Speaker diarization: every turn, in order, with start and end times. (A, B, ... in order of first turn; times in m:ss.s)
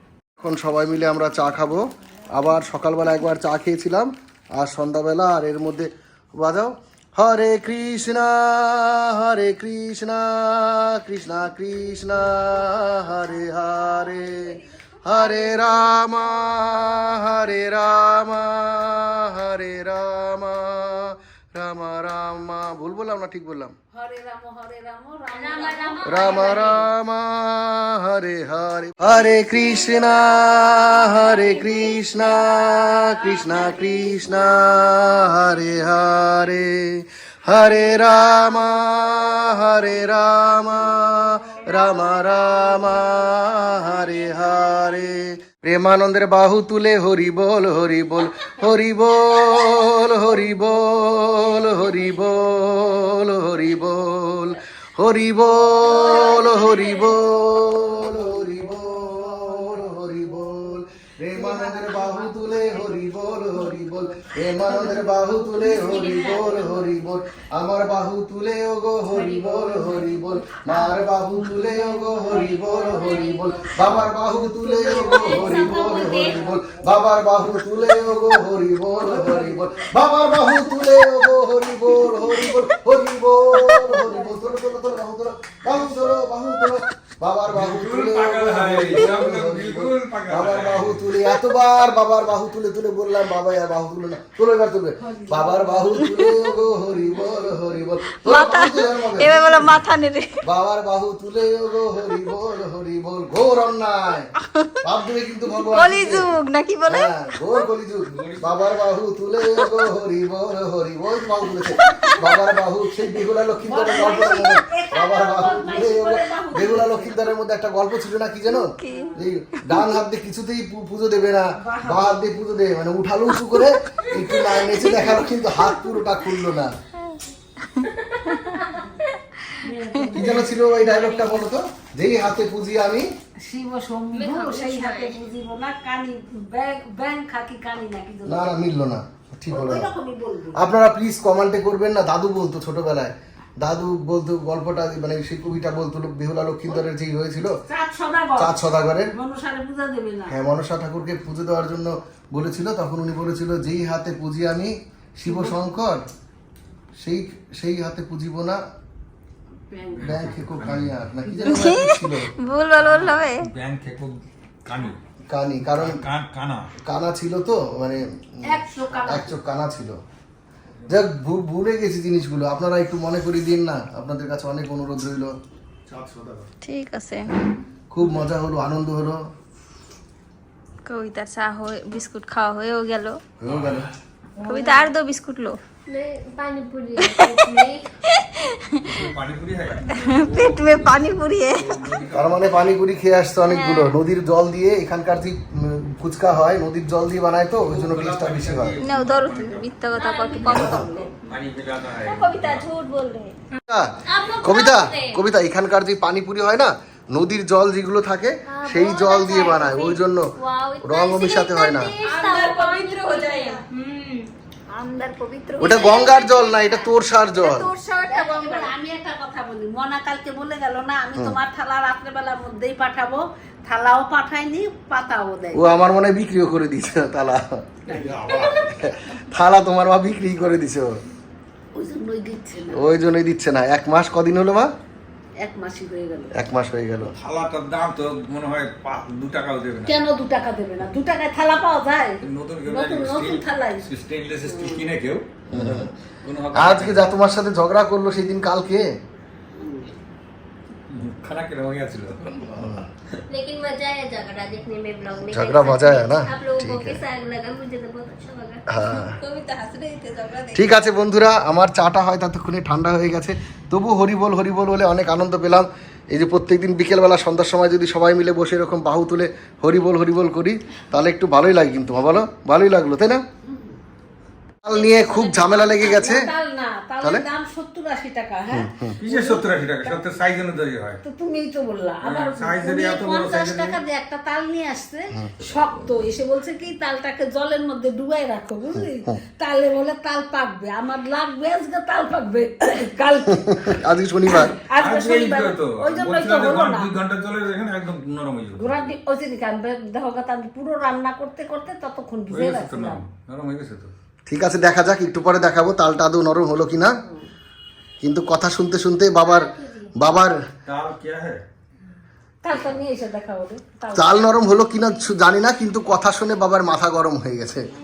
0:00.4-0:23.7 A
0:23.9-0:26.8 B
0:25.3-0:26.8 C
0:26.0-1:39.8 A
0:55.8-0:57.1 C
1:01.4-1:02.4 B
1:05.6-1:06.6 C
1:09.1-1:10.1 C
1:11.5-1:12.6 B
1:12.3-1:13.9 C
1:14.6-1:16.8 B
1:14.8-1:16.6 C
1:19.0-1:19.8 B
1:21.9-1:22.7 D
1:23.5-1:24.0 D
1:24.0-1:24.3 B
1:27.5-1:31.1 E
1:35.0-1:36.0 B
1:36.1-1:36.5 D
1:38.1-1:40.4 D
1:40.4-1:44.3 A
1:44.4-1:44.7 D
1:44.8-1:46.3 A
1:45.6-1:47.1 D
1:46.9-2:06.7 A
1:48.1-1:48.8 E
1:49.4-1:49.8 D
1:51.5-1:52.5 D
1:53.7-1:57.3 B
1:58.5-2:00.0 D
2:01.6-2:02.2 B
2:03.4-2:06.0 D
2:07.1-2:08.7 D
2:08.2-2:09.0 B
2:09.6-2:11.4 B
2:10.1-2:13.1 A
2:13.4-2:18.7 B
2:14.1-2:15.2 C
2:18.3-2:19.9 A
2:19.5-2:20.6 B
2:20.6-2:27.5 A
2:27.7-2:30.4 B
2:28.4-2:29.1 A
2:30.3-2:36.0 A
2:35.2-2:35.6 B
2:37.0-2:38.6 A
2:39.7-2:40.4 B
2:40.0-2:41.0 E
2:40.0-2:42.3 A
2:41.4-2:43.4 D
2:42.8-2:45.0 E
2:45.3-2:46.0 A
2:45.8-2:46.7 E
2:46.9-2:50.0 A
2:48.4-2:49.4 B
2:50.8-2:51.0 E
2:50.9-2:55.4 A
2:55.9-2:56.5 E
2:56.6-2:57.4 D
2:57.9-2:59.2 A
3:00.9-3:03.2 D
3:03.4-3:03.9 A
3:03.5-3:03.9 E
3:04.4-3:04.8 B
3:04.5-3:05.6 D
3:04.5-3:04.8 C
3:05.9-3:07.9 C
3:07.0-3:07.3 D
3:08.2-3:09.0 D
3:08.8-3:12.7 E
3:10.0-3:11.7 D
3:12.2-3:18.8 A
3:13.5-3:14.0 D
3:17.6-3:19.8 E
3:18.8-3:21.1 D
3:20.0-3:21.1 C
3:20.4-3:22.7 E
3:20.5-3:20.8 A
3:22.0-3:23.4 D
3:23.7-3:30.3 A
3:24.1-3:25.2 C
3:28.5-3:34.3 C
3:30.8-3:31.9 A
3:32.0-3:33.6 D
3:34.7-3:36.3 D
3:35.6-3:37.7 A
3:35.6-3:36.8 C
3:37.4-3:38.7 D
3:38.1-3:45.7 B
3:45.5-3:47.7 A
3:47.9-3:48.6 B
3:47.9-3:48.9 E
3:48.7-3:51.0 A
3:51.8-3:52.9 B
3:52.7-3:54.7 A
3:55.4-3:56.4 B
3:56.4-3:57.1 A
3:57.1-4:00.0 E
3:59.8-4:03.8 B
4:02.2-4:07.1 E
4:04.5-4:04.9 B
4:05.5-4:05.9 A
4:06.6-4:08.9 A
4:09.6-4:09.9 B
4:10.9-4:13.2 E
4:12.6-4:12.9 A
4:13.3-4:18.6 C
4:15.3-4:17.0 A
4:18.7-4:19.2 A
4:19.2-4:20.7 D
4:20.5-4:33.2 A
4:33.5-4:33.8 B
4:34.6-4:36.3 A
4:34.7-4:40.0 B
4:38.5-4:39.0 A
4:39.0-4:41.0 E
4:41.0-4:53.7 B
4:42.0-4:43.8 E
4:48.7-4:49.2 A
4:53.4-4:54.5 A
4:54.3-4:56.9 B
4:54.8-4:58.9 E
4:58.6-5:03.0 B
5:02.3-5:03.9 E
5:04.3-5:07.0 A
5:08.0-5:10.4 A
5:10.7-5:11.4 E
5:12.4-5:14.5 B
5:13.9-5:17.7 A